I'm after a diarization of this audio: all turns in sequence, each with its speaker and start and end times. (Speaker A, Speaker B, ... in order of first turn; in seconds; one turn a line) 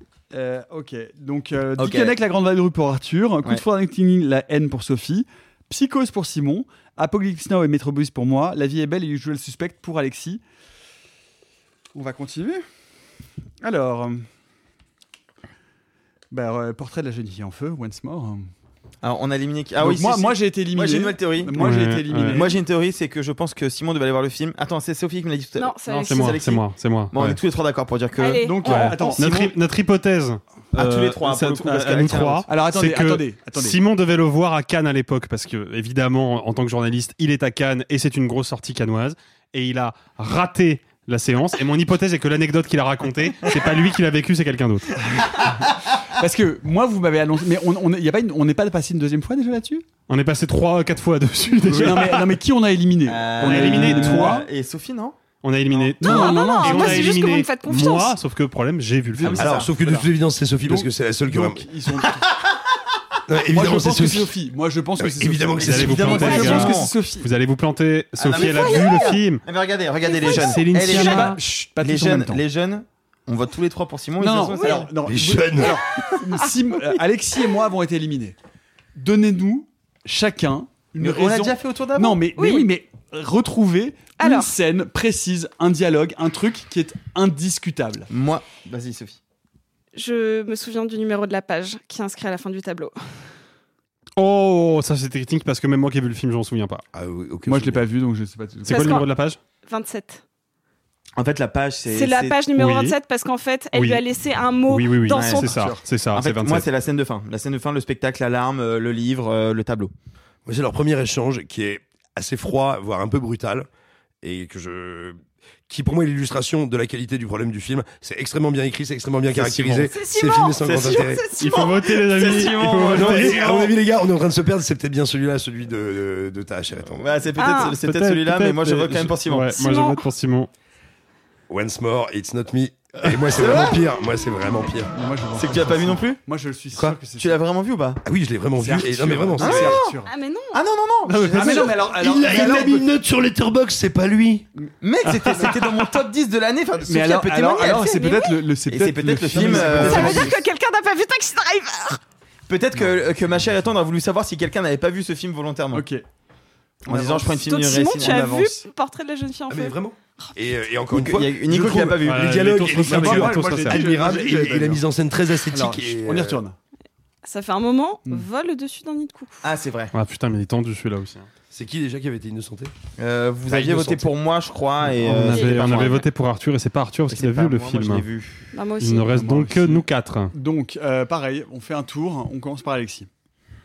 Speaker A: 0.3-10.4
Speaker B: 1.8-2.2
Speaker A: 11.9-12.7
Speaker A: 13.6-14.3
Speaker A: 16.3-18.5
Speaker B: 19.0-21.6
Speaker A: 19.8-22.6
Speaker C: 21.6-22.4
Speaker B: 22.3-29.5
Speaker D: 25.6-26.4
Speaker C: 25.9-27.4
Speaker D: 28.2-29.1
Speaker A: 28.4-29.4
Speaker C: 28.6-45.2
Speaker B: 30.8-32.5
Speaker A: 32.5-33.8
Speaker A: 46.0-49.9
Speaker C: 50.1-52.3
Speaker A: 51.7-54.5
Speaker B: 53.1-55.2
Speaker C: 53.4-54.4
Speaker C: 55.4-59.5
Speaker A: 55.8-57.1
Speaker D: 56.0-58.2
Speaker A: 59.1-60.1
Speaker B: 59.2-60.0
Speaker E: 59.3-61.7
Speaker A: 60.6-62.3
Speaker E: 63.3-64.3
Speaker A: 63.5-67.3
Speaker E: 65.0-66.3
Speaker B: 65.6-66.9
Speaker C: 65.6-69.4
Speaker B: 68.2-74.9
Speaker D: 68.4-69.1
Speaker D: 70.2-70.5
Speaker C: 70.2-71.4
Speaker A: 70.8-72.4
Speaker A: 74.2-78.4
Speaker D: 74.6-74.9
Speaker E: 75.0-75.8
Speaker A: 79.0-88.1
Speaker B: 81.0-82.2
Speaker D: 82.4-82.7
Speaker D: 84.2-84.5
Speaker B: 88.1-89.2
Speaker D: 90.0-93.0
Speaker C: 94.2-96.8
Speaker E: 96.9-97.8
Speaker A: 97.5-99.0
Speaker C: 98.7-99.4
Speaker D: 98.7-99.1
Speaker D: 99.7-100.2
Speaker B: 101.2-102.4
Speaker D: 101.9-105.5
Speaker C: 102.6-103.0
Speaker C: 103.7-104.0
Speaker C: 104.7-106.7
Speaker B: 105.1-105.5
Speaker A: 105.4-105.8
Speaker B: 106.1-109.9
Speaker E: 110.5-113.7
Speaker E: 114.2-115.2
Speaker E: 115.7-121.2
Speaker B: 119.3-119.8
Speaker C: 119.5-119.7
Speaker D: 119.9-122.5
Speaker B: 120.6-123.7
Speaker C: 121.4-123.5
Speaker E: 122.8-127.1
Speaker B: 127.0-129.5
Speaker D: 127.4-127.8
Speaker C: 127.6-130.5
Speaker D: 129.5-130.1
Speaker E: 131.5-134.9
Speaker B: 133.3-133.8
Speaker A: 134.9-137.4
Speaker B: 135.3-136.2
Speaker B: 137.2-138.0
Speaker E: 138.1-139.8
Speaker A: 138.6-140.1
Speaker B: 139.4-139.9
Speaker D: 140.1-140.6
Speaker B: 140.5-141.8
Speaker C: 141.1-141.7
Speaker A: 141.3-142.9
Speaker E: 141.8-144.5
Speaker B: 144.8-148.0
Speaker C: 145.1-145.6
Speaker A: 146.8-150.3
Speaker D: 147.7-148.4
Speaker B: 148.7-150.4
Speaker D: 149.5-152.0
Speaker B: 152.5-155.9
Speaker A: 155.7-156.0
Speaker B: 156.8-158.3
Speaker A: 156.9-158.7
Speaker D: 157.4-159.8
Speaker E: 159.5-166.4
Speaker B: 160.9-162.4
Speaker C: 162.0-163.8
Speaker A: 162.7-164.8
Speaker A: 165.5-166.6
Speaker D: 167.2-169.4
Speaker B: 169.4-169.9
Speaker C: 169.9-171.3
Speaker E: 171.5-172.7
Speaker B: 173.0-176.0
Speaker E: 173.5-174.0
Speaker C: 175.0-178.1
Speaker D: 175.3-176.0
Speaker B: 177.1-178.4
Speaker D: 178.5-179.1
Speaker C: 178.8-180.3
Speaker A: 179.1-183.1